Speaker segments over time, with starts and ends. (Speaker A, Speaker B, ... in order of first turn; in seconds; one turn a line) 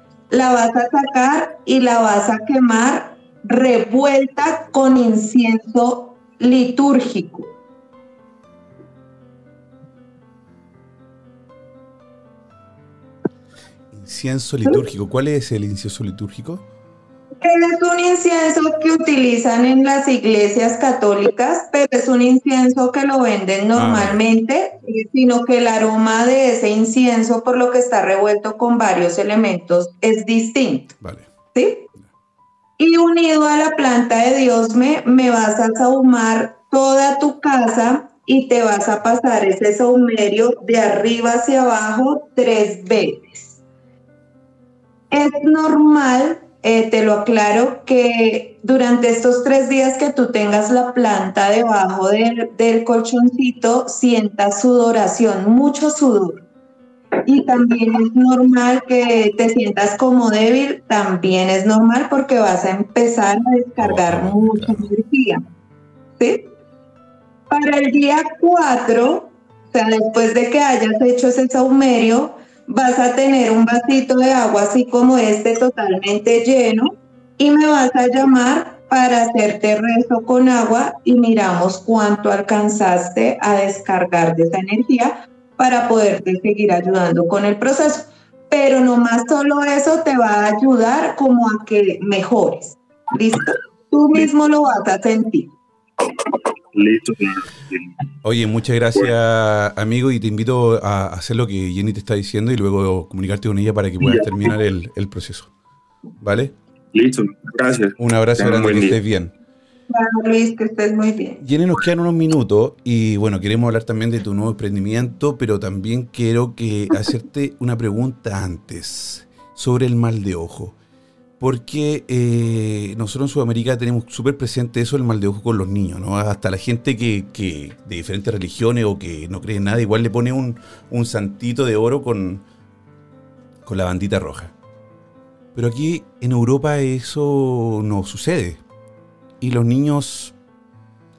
Speaker A: 0.3-7.5
Speaker B: 13.9-16.6
Speaker A: 17.4-30.9
Speaker B: 23.7-24.2
Speaker B: 31.0-31.3
Speaker A: 31.5-31.9
Speaker A: 32.8-43.5
Speaker A: 45.1-56.4
Speaker A: 57.2-65.4
Speaker B: 63.8-64.9
Speaker A: 66.2-66.5
Speaker A: 67.5-95.5
Speaker C: 96.0-98.0
Speaker B: 98.2-105.5
Speaker C: 104.0-104.5
Speaker B: 106.2-106.5
Speaker C: 106.9-109.0
Speaker B: 108.0-109.3
Speaker A: 109.9-111.4
Speaker B: 111.4-120.8
Speaker B: 121.4-132.4
Speaker B: 133.6-134.5
Speaker B: 135.5-138.6
Speaker B: 139.4-140.3